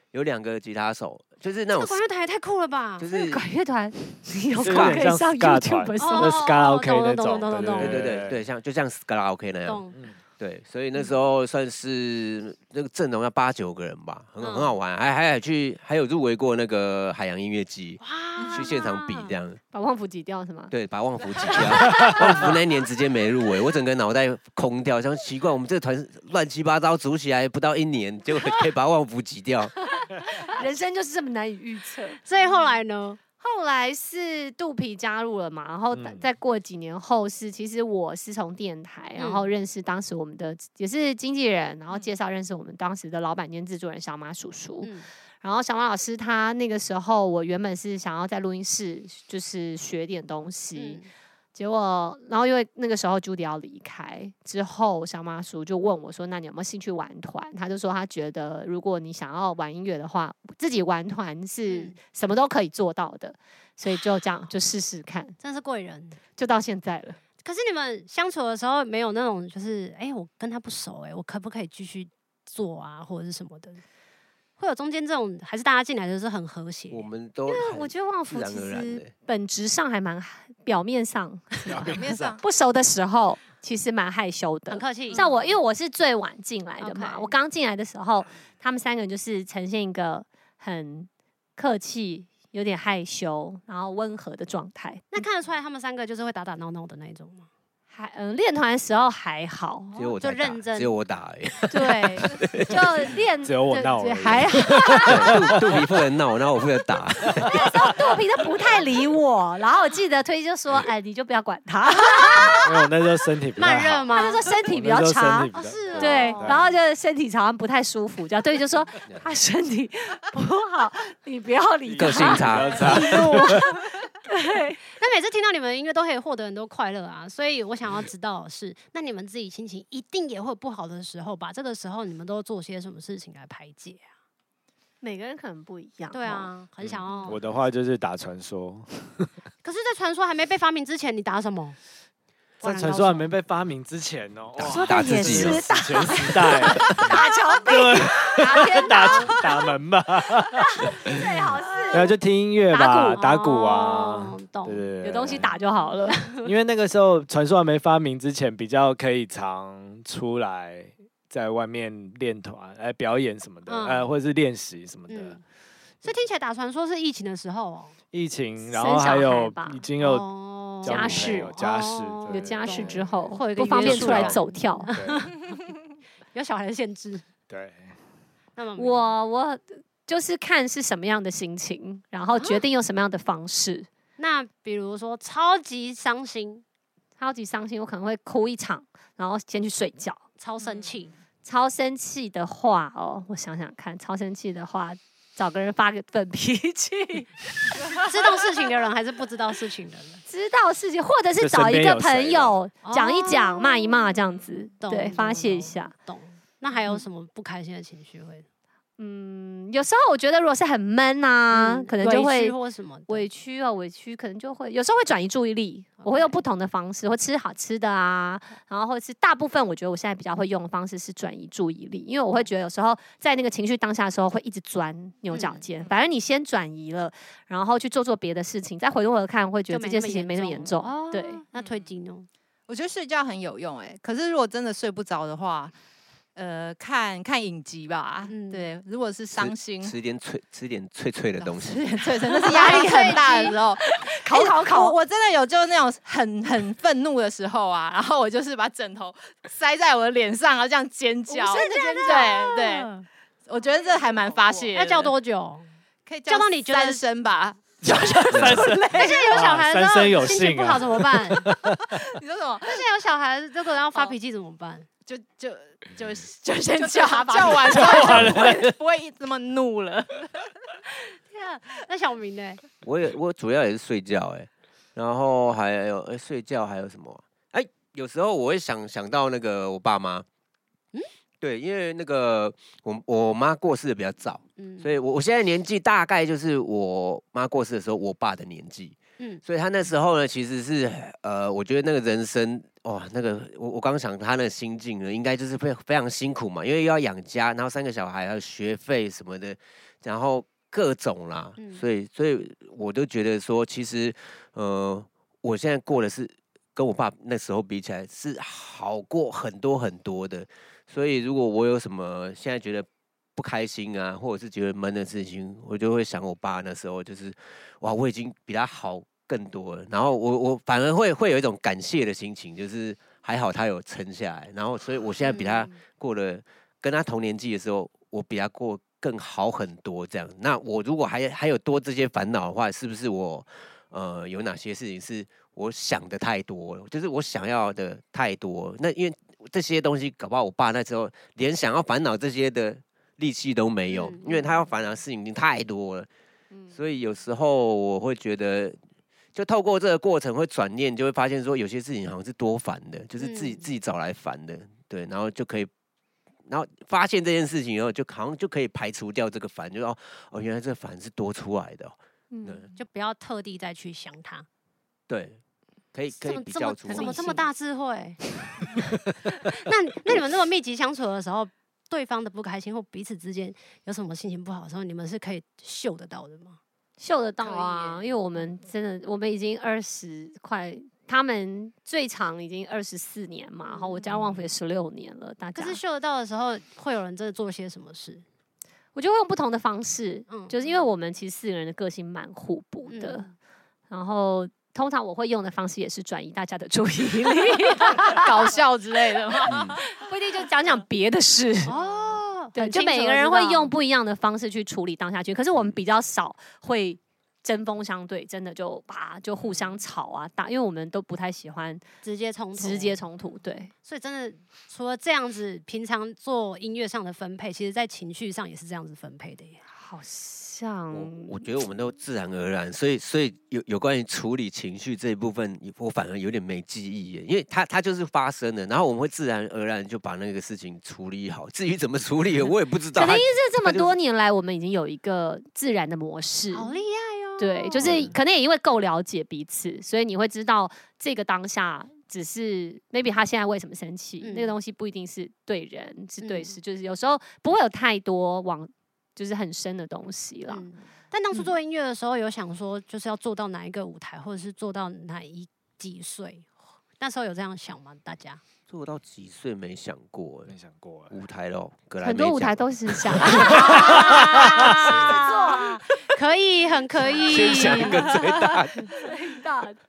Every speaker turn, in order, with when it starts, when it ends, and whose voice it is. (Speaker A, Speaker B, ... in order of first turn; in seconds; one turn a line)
Speaker A: 0.1-2.0
Speaker B: 1.7-3.1
Speaker A: 3.0-3.4
Speaker C: 3.1-6.4
Speaker D: 4.6-8.4
Speaker B: 6.0-8.0
Speaker A: 7.8-9.8
Speaker B: 9.6-9.9
Speaker A: 10.4-18.0
Speaker B: 14.4-14.7
Speaker B: 18.0-19.3
Speaker A: 18.5-19.6
Speaker C: 19.7-20.7
Speaker A: 20.7-29.7
Speaker C: 21.4-22.3
Speaker C: 30.0-32.2
Speaker B: 32.2-33.2
Speaker C: 33.4-51.0
Speaker D: 35.9-36.2
Speaker B: 39.2-39.5
Speaker B: 44.8-45.1
Speaker B: 50.8-51.1
Speaker C: 51.5-65.3
Speaker B: 61.6-62.0
Speaker B: 65.4-66.2
Speaker C: 66.4-67.2
Speaker B: 67.4-73.8
Speaker B: 74.6-77.1
Speaker A: 76.9-79.1
Speaker C: 77.5-95.2
Speaker D: 81.6-82.4
Speaker E: 81.9-82.4
Speaker B: 84.7-85.6
Speaker B: 86.8-87.3
Speaker B: 95.1-97.5
Speaker C: 97.9-100.0
Speaker B: 99.9-100.9
Speaker A: 99.9-102.9
Speaker C: 101.7-105.4
Speaker B: 101.7-102.3
Speaker D: 103.4-106.0
Speaker A: 105.1-107.5
Speaker D: 107.2-108.2
Speaker C: 107.5-112.6
Speaker B: 112.1-112.4
Speaker D: 112.5-116.7
Speaker B: 113.6-114.4
Speaker C: 114.1-124.8
Speaker B: 115.5-116.7
Speaker D: 121.8-123.7
Speaker A: 122.0-123.2
Speaker B: 124.9-134.1
Speaker C: 135.0-136.5
Speaker B: 136.1-137.4
Speaker D: 136.8-139.3
Speaker B: 139.6-141.8
Speaker B: 142.6-143.3
Speaker D: 142.6-151.2
Speaker A: 144.6-145.7
Speaker C: 144.6-149.5
Speaker B: 146.6-147.4
Speaker B: 148.4-149.5
Speaker C: 150.7-152.1
Speaker B: 151.7-152.1
Speaker D: 151.9-155.5
Speaker C: 152.7-153.3
Speaker B: 153.1-154.8
Speaker C: 155.0-156.3
Speaker D: 156.4-165.4
Speaker B: 163.7-164.1
Speaker B: 165.1-165.4
Speaker B: 166.0-167.9
Speaker D: 168.1-175.3
Speaker C: 168.7-169.8
Speaker B: 170.0-175.3
Speaker C: 170.8-171.5
Speaker C: 172.3-174.9
Speaker B: 176.3-177.2
Speaker D: 177.5-177.9
Speaker B: 178.6-179.1
Speaker C: 178.8-183.9
Speaker B: 182.3-182.6
Speaker B: 184.2-186.6
Speaker C: 187.2-190.2
Speaker B: 190.4-191.1
Speaker C: 191.4-198.0
Speaker B: 197.9-200.2
Speaker C: 200.3-205.9
Speaker D: 201.4-202.6
Speaker B: 202.8-204.2
Speaker B: 204.8-208.4
Speaker C: 209.0-231.4
Speaker B: 211.5-213.2
Speaker B: 216.0-216.4
Speaker B: 225.3-225.6
Speaker B: 229.7-232.3
Speaker E: 232.7-235.7
Speaker E: 236.3-239.9
Speaker B: 238.3-238.7
Speaker A: 239.3-241.8
Speaker E: 241.4-252.9
Speaker C: 242.4-244.9
Speaker B: 242.4-243.6
Speaker B: 251.3-253.1
Speaker C: 251.5-252.3
Speaker E: 253.5-255.1
Speaker B: 254.6-255.7
Speaker E: 256.1-259.4
Speaker B: 256.3-257.1
Speaker D: 257.8-262.0
Speaker A: 258.3-258.7
Speaker B: 258.9-261.5
Speaker E: 262.0-262.8
Speaker B: 262.6-264.9
Speaker E: 265.1-270.5
Speaker B: 266.7-268.4
Speaker D: 267.7-268.7
Speaker B: 271.3-272.6
Speaker A: 272.8-280.2
Speaker A: 281.4-346.1
Speaker B: 284.6-284.9
Speaker B: 301.6-301.8
Speaker B: 325.2-325.7
Speaker B: 343.9-344.4
Speaker A: 346.7-348.8
Speaker A: 349.3-355.7
Speaker B: 353.2-353.7
Speaker A: 356.5-362.7
Speaker C: 362.3-362.6
Speaker B: 362.8-364.5
Speaker A: 365.1-365.4
Speaker A: 365.9-367.4
Speaker B: 366.2-368.2
Speaker C: 366.9-367.4
Speaker B: 369.4-376.6
Speaker C: 377.0-385.8
Speaker B: 377.4-378.1
Speaker B: 383.7-384.1
Speaker B: 385.5-388.2
Speaker C: 388.9-393.3
Speaker B: 390.3-390.6
Speaker B: 392.9-393.3
Speaker C: 393.9-398.5
Speaker E: 398.1-399.8
Speaker A: 399.5-399.8
Speaker C: 399.9-401.7
Speaker B: 401.6-403.7
Speaker C: 402.5-411.8
Speaker B: 412.0-413.0
Speaker C: 412.5-413.7
Speaker B: 413.8-419.6
Speaker C: 419.7-421.4
Speaker A: 420.9-433.9
Speaker C: 432.9-436.8
Speaker B: 436.5-437.9
Speaker C: 437.4-450.7
Speaker A: 437.8-438.1
Speaker B: 444.2-444.5
Speaker B: 446.2-446.6
Speaker B: 450.5-456.5
Speaker B: 457.0-458.4
Speaker A: 458.7-460.5
Speaker D: 460.5-461.1
Speaker A: 461.1-464.2
Speaker C: 462.0-465.8
Speaker D: 463.3-464.9
Speaker B: 463.4-468.0
Speaker C: 467.1-468.3
Speaker A: 467.3-468.9
Speaker C: 468.9-469.8